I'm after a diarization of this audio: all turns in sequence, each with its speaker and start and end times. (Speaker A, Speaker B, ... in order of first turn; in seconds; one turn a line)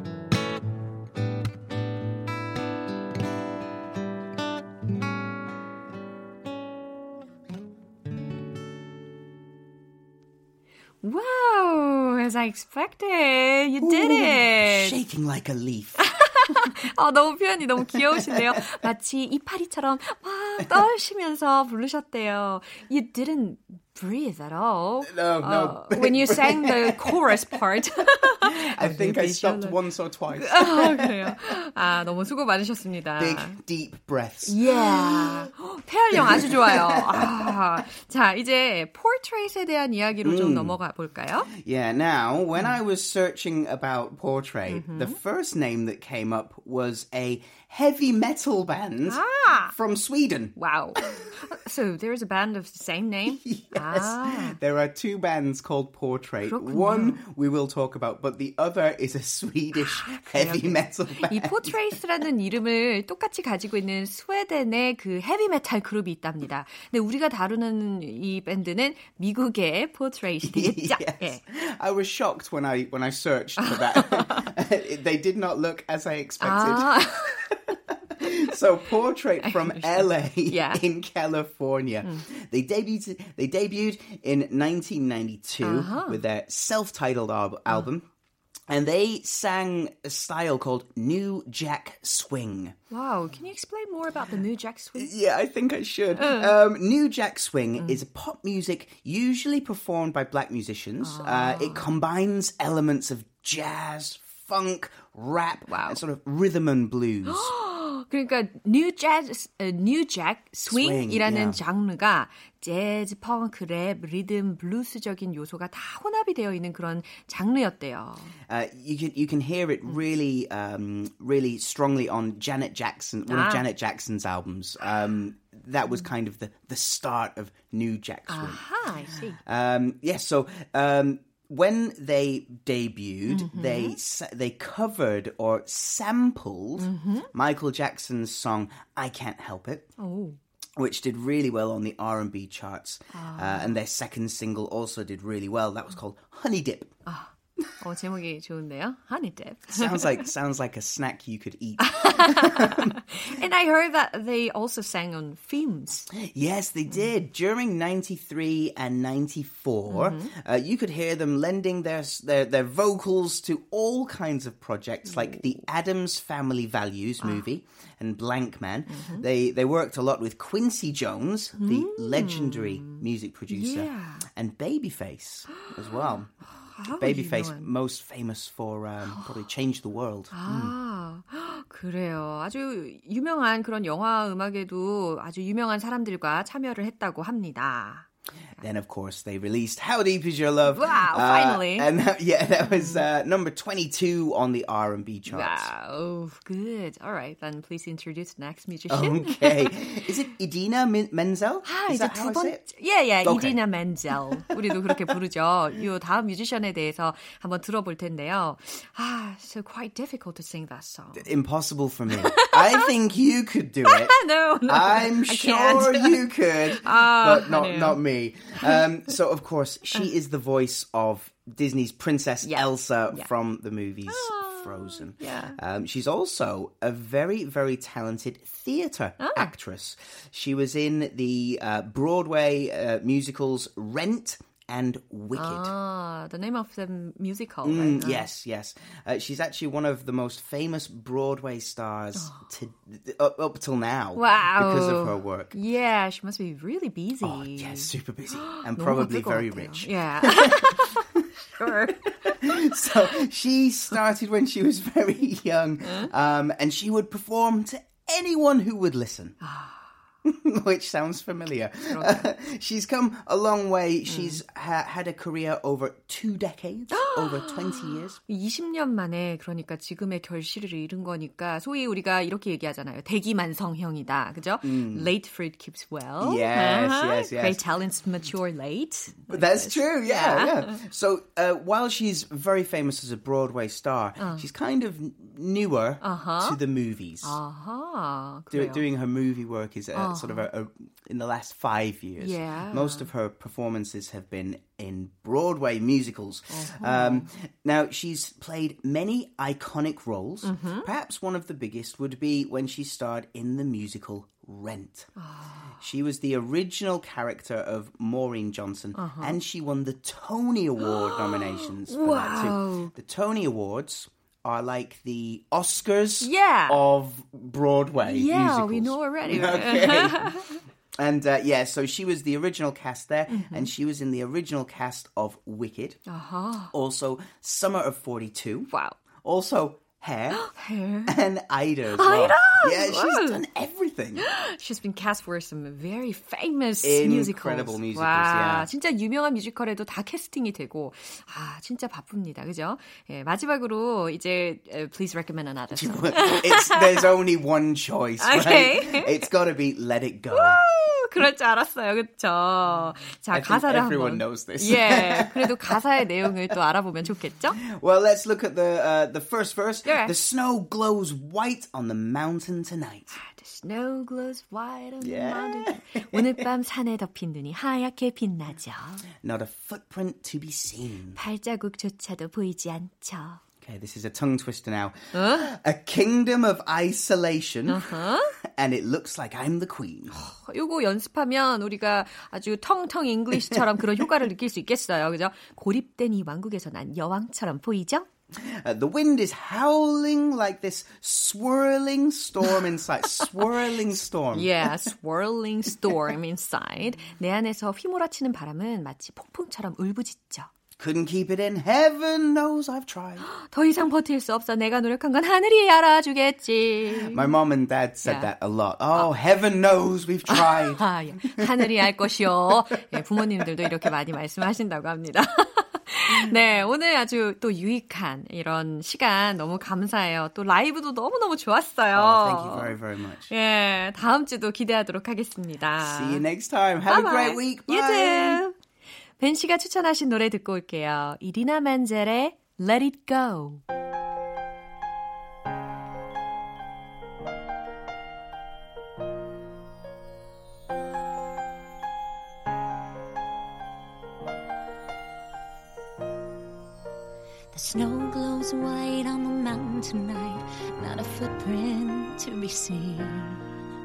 Speaker A: 11.0-15.0
Speaker B: 13.8-16.7
Speaker A: 16.0-29.8
Speaker B: 17.9-18.6
Speaker B: 25.0-27.4
Speaker B: 28.4-31.4
Speaker A: 30.4-33.6
Speaker B: 33.2-35.5
Speaker A: 34.5-41.5
Speaker B: 36.1-37.6
Speaker B: 40.2-40.8
Speaker B: 41.5-51.3
Speaker A: 44.7-45.2
Speaker A: 49.0-49.7
Speaker A: 50.5-54.6
Speaker B: 53.3-61.8
Speaker A: 56.4-57.2
Speaker A: 59.8-71.4
Speaker B: 70.4-77.5
Speaker A: 73.6-74.4
Speaker A: 76.4-77.5
Speaker B: 78.1-88.1
Speaker A: 79.4-80.8
Speaker A: 85.6-86.2
Speaker B: 88.7-92.7
Speaker A: 92.9-95.1
Speaker B: 95.0-107.5
Speaker A: 96.2-96.5
Speaker A: 101.0-101.9
Speaker A: 105.7-106.0
Speaker A: 107.2-118.3
Speaker B: 110.7-111.6
Speaker B: 118.5-128.7
Speaker A: 123.3-123.7
Speaker A: 128.3-129.4
Speaker B: 129.4-139.9
Speaker A: 133.3-134.0
Speaker A: 136.8-137.3
Speaker A: 140.0-140.4
Speaker B: 140.8-146.9
Speaker A: 143.1-143.7
Speaker A: 147.1-150.3
Speaker B: 149.7-153.0
Speaker A: 151.8-156.1
Speaker B: 156.1-176.3
Speaker A: 159.9-160.3
Speaker A: 165.1-165.4
Speaker A: 168.9-169.2
Speaker A: 171.6-174.2
Speaker A: 175.5-176.0
Speaker A: 176.6-177.7
Speaker B: 176.8-180.7
Speaker A: 180.3-188.1
Speaker B: 188.6-195.7
Speaker A: 190.7-191.9
Speaker A: 192.7-193.0
Speaker A: 195.3-199.8
Speaker B: 198.9-202.6
Speaker A: 201.6-211.3
Speaker B: 203.2-203.6
Speaker B: 204.1-204.9
Speaker B: 211.1-235.7
Speaker A: 212.2-212.9
Speaker A: 213.8-216.2
Speaker A: 216.8-218.0
Speaker A: 222.4-223.3
Speaker A: 224.1-225.6
Speaker A: 229.2-229.5
Speaker A: 235.3-238.3
Speaker B: 237.6-245.5
Speaker A: 242.2-242.4
Speaker A: 244.2-252.9
Speaker B: 247.2-251.0
Speaker B: 252.3-259.4
Speaker A: 255.8-256.1
Speaker A: 259.4-259.9
Speaker B: 260.2-268.2
Speaker A: 261.9-262.3
Speaker A: 264.1-264.4
Speaker A: 266.9-280.8
Speaker B: 274.6-275.1
Speaker B: 276.2-277.6
Speaker B: 279.3-287.4
Speaker A: 284.2-284.4
Speaker A: 286.0-286.6
Speaker A: 287.2-288.8
Speaker B: 288.5-305.1
Speaker A: 289.9-290.5
Speaker A: 292.2-293.1
Speaker A: 296.5-297.3
Speaker A: 300.4-300.9
Speaker A: 305.2-305.7
Speaker B: 305.8-320.5
Speaker A: 308.9-309.4
Speaker A: 310.8-312.9
Speaker A: 316.2-316.8
Speaker A: 318.0-320.6
Speaker B: 321.0-326.0
Speaker A: 323.3-323.7
Speaker A: 326.1-326.7
Speaker B: 326.7-328.7
Speaker A: 328.7-329.0
Speaker B: 329.2-330.5
Speaker A: 330.3-331.2
Speaker B: 331.1-334.3
Speaker A: 331.9-333.4
Speaker A: 334.2-347.1
Speaker B: 336.8-338.7
Speaker B: 345.7-350.6
Speaker A: 348.2-349.3
Speaker A: 350.3-357.6
Speaker B: 353.3-356.0
Speaker B: 357.6-363.2
Speaker A: 359.9-360.1
Speaker A: 363.1-369.0
Speaker B: 365.0-366.4
Speaker B: 369.2-371.2
Speaker A: 371.1-373.4
Speaker B: 373.6-380.2
Speaker A: 375.1-375.5
Speaker A: 377.7-378.4
Speaker A: 380.1-388.1
Speaker B: 388.3-394.9
Speaker A: 394.3-400.5
Speaker B: 400.8-403.2
Speaker A: 403.2-407.3
Speaker B: 406.9-411.7
Speaker A: 408.0-408.3
Speaker A: 410.3-422.8
Speaker B: 421.9-423.3
Speaker A: 423.3-426.2
Speaker B: 425.8-428.4
Speaker A: 426.9-428.5
Speaker A: 429.2-433.6
Speaker C: 447.5-453.4